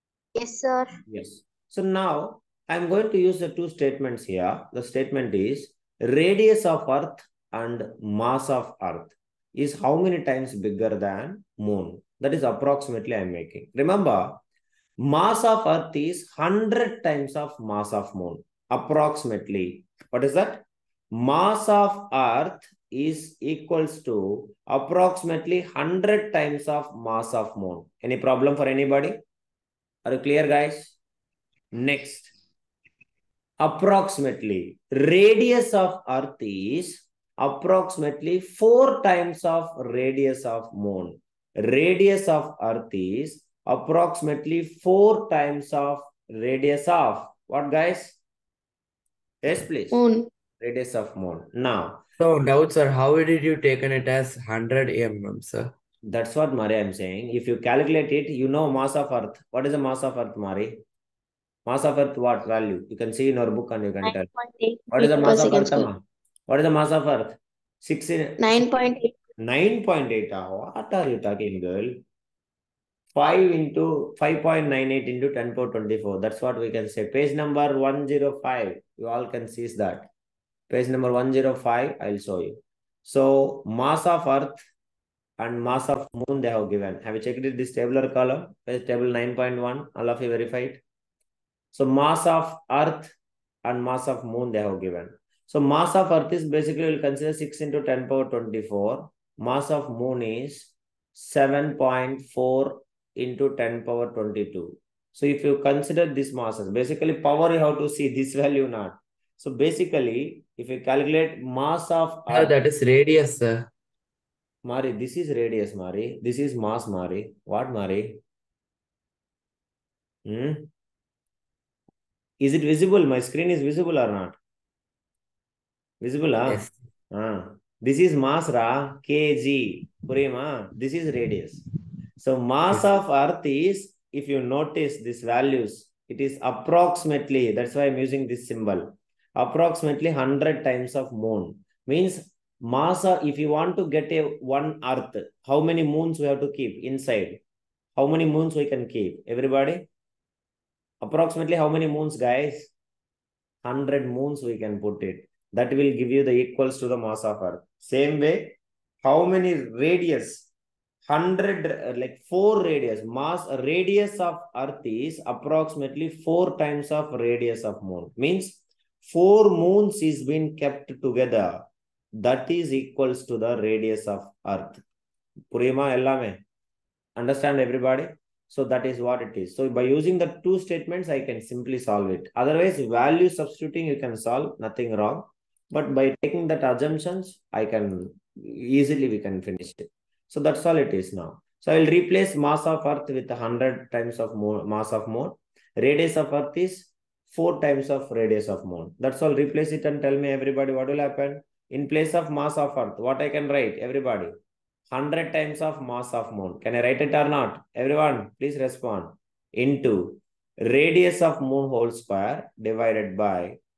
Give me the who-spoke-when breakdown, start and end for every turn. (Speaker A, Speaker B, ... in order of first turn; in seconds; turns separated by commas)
Speaker A: 0.3-1.0, Speaker B: 1.1-14.4, Speaker B: 15.0-29.1, Speaker B: 30.0-30.9, Speaker B: 31.7-32.3, Speaker B: 33.6-48.2, Speaker B: 49.4-50.0, Speaker A: 49.9-50.3, Speaker B: 50.6-52.0, Speaker C: 52.2-55.7, Speaker B: 56.1-60.8, Speaker B: 61.6-64.3, Speaker A: 64.0-65.9, Speaker B: 64.9-68.6, Speaker A: 68.4-69.1, Speaker B: 69.4-72.0, Speaker B: 73.1-80.1, Speaker B: 80.7-84.6, Speaker B: 85.4-90.8, Speaker B: 91.7-112.5, Speaker C: 112.3-113.7, Speaker B: 114.6-118.2, Speaker B: 120.2-120.7, Speaker B: 122.4-124.4, Speaker B: 126.0-131.6, Speaker C: 126.5-126.7, Speaker B: 132.2-147.4, Speaker B: 147.9-149.9, Speaker B: 151.0-152.7, Speaker B: 153.6-160.5, Speaker B: 161.0-174.8, Speaker B: 175.5-176.4, Speaker B: 177.2-204.3, Speaker B: 204.9-213.6